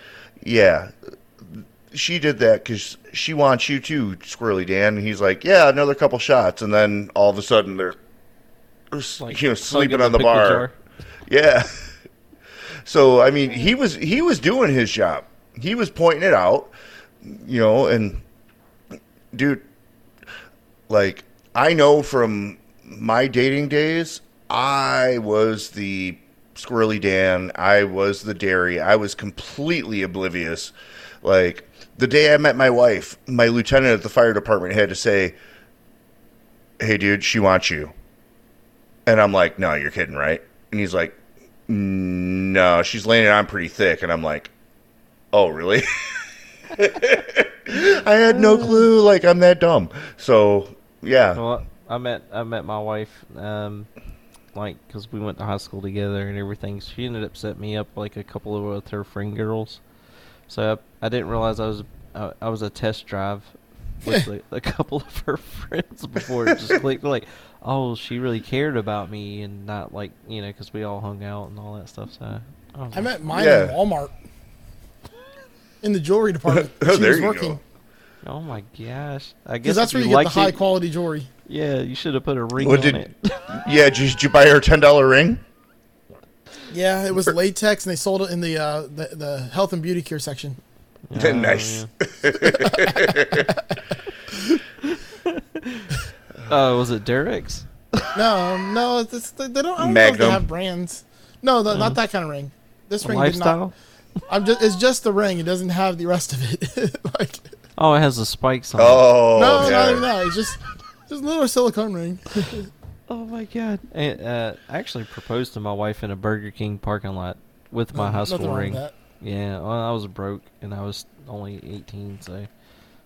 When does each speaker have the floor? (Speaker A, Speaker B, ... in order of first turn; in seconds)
Speaker A: 0.4-8.0, 8.9-10.7, 11.3-11.9, 12.9-18.2, 19.3-19.6, 20.9-35.4, 36.8-37.9, 39.0-41.2, 41.7-44.5, 45.3-51.4, 73.3-73.8, 76.5-77.6, 82.6-85.4, 91.1-93.5, 99.8-100.5, 108.8-110.1
Speaker B: 9.2-10.7, 48.3-48.9, 51.4-53.9, 54.5-59.8, 60.5-73.1, 78.2-80.6, 81.5-83.6, 91.1-91.9, 94.8-95.9, 96.5-98.1, 101.7-102.0, 103.0-103.7, 107.8-109.1, 113.1-122.5
Speaker C: 72.9-74.1, 75.8-77.6, 79.6-81.3, 86.7-90.6, 92.5-93.6, 98.1-103.6, 104.3-107.4, 109.3-112.7, 117.9-119.0